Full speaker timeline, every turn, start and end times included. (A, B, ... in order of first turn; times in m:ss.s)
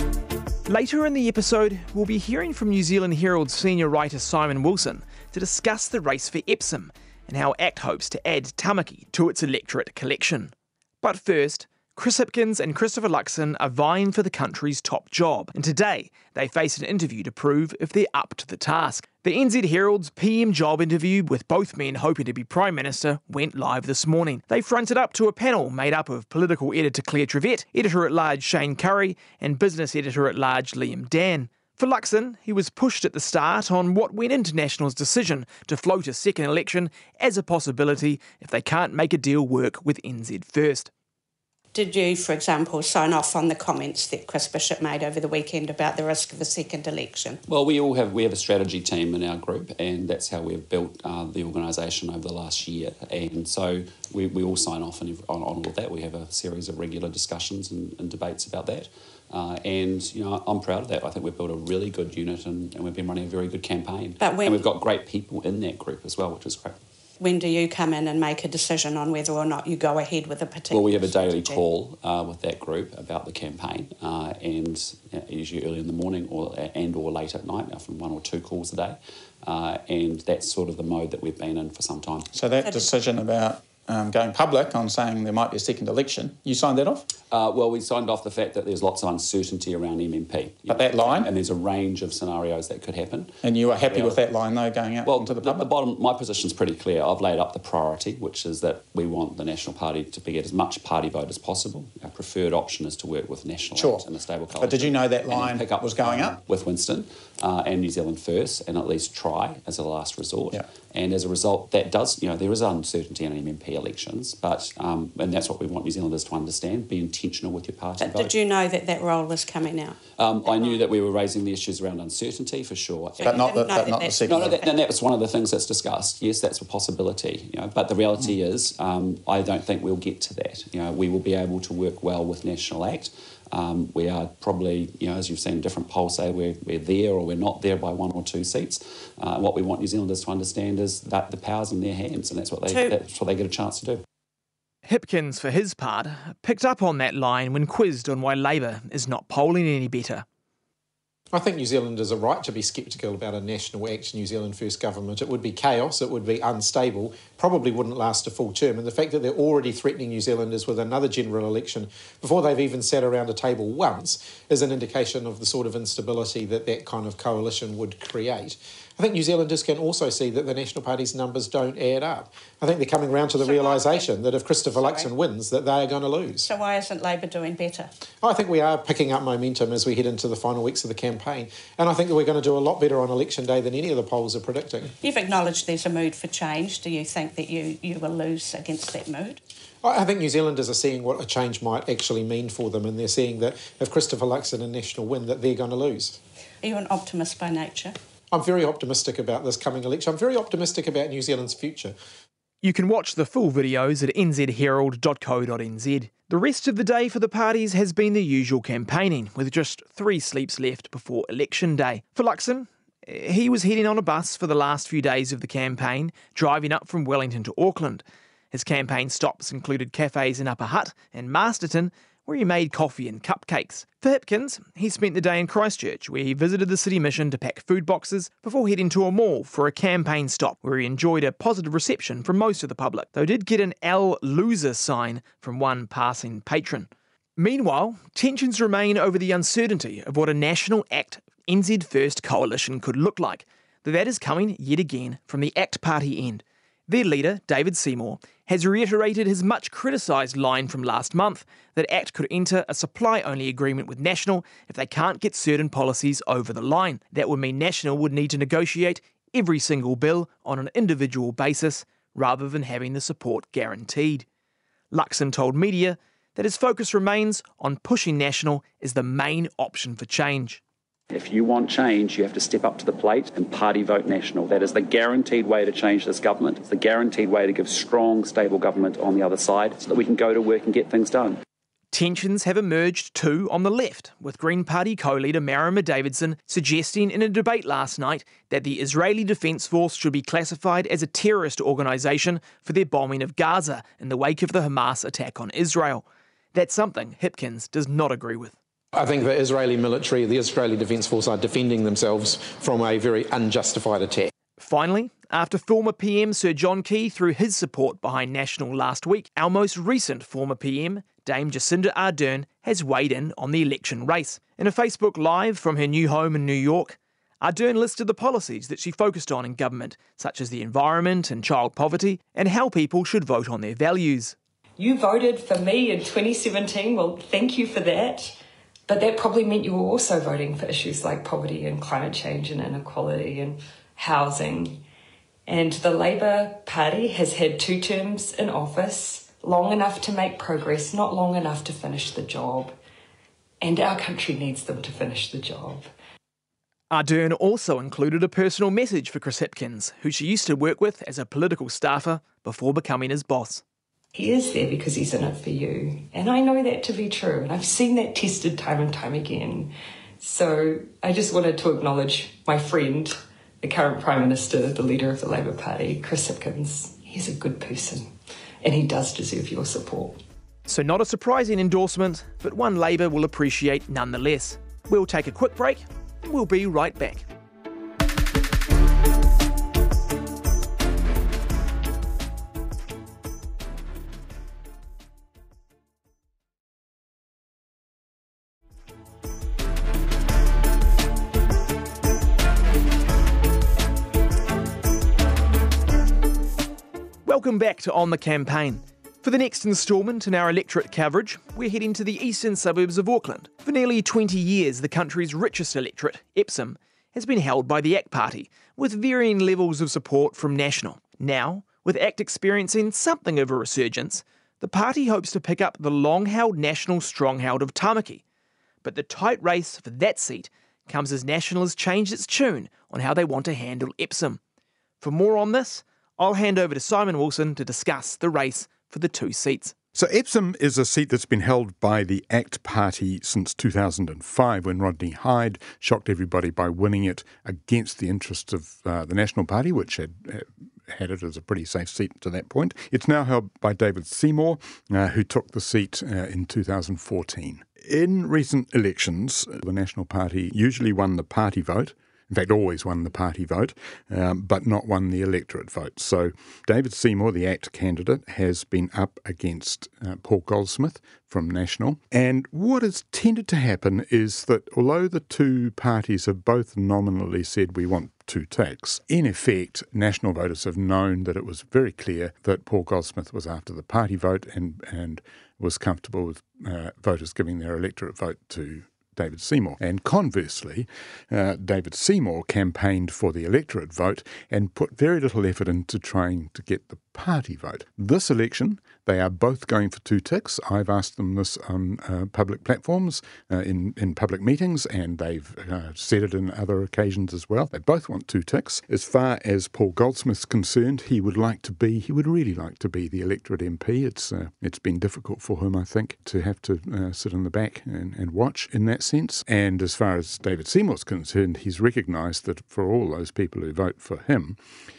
0:00.7-0:40.9 A
0:41.7-0:47.4 B
0:47.5-1:06.8 C
1:04.2-1:04.6 B
1:07.2-1:11.6 B
1:10.7-1:22.3 C
1:22.3-1:27.1 D
1:22.6-1:22.9 B
1:27.3-1:34.2 C
1:30.7-1:31.3 D
1:33.4-1:35.7 D
1:35.0-1:58.4 C
1:43.8-1:46.4 D
1:58.0-2:00.9 B
2:00.1-2:03.5 C
2:03.2-2:04.7 B
2:03.2-2:04.6 D
2:04.2-2:24.0 C
2:22.7-2:23.0 B
2:24.9-2:30.2 A
2:31.3-2:56.5 E
2:53.4-2:54.1 B
2:54.8-2:55.1 B
2:56.4-2:57.9 B
2:58.2-3:04.9 E
3:05.0-3:09.4 B
3:09.8-3:16.2 E
3:16.6-3:17.9 B
3:18.3-3:22.0 E
3:22.6-4:24.3 A
4:24.9-4:30.6 A
4:31.1-4:41.4 C
4:41.9-4:58.6 A
4:59.0-5:04.3 E
5:04.6-5:24.4 A
5:24.8-5:34.8 F
5:35.5-5:42.8 F
5:43.6-5:45.9 F
5:46.9-5:53.6 A
5:54.1-6:08.1 F
6:08.6-6:10.2 F
6:10.7-6:17.2 A
6:37.2-6:58.2 A
6:58.8-7:04.4 A
7:05.0-7:09.7 A
7:10.0-8:34.6 G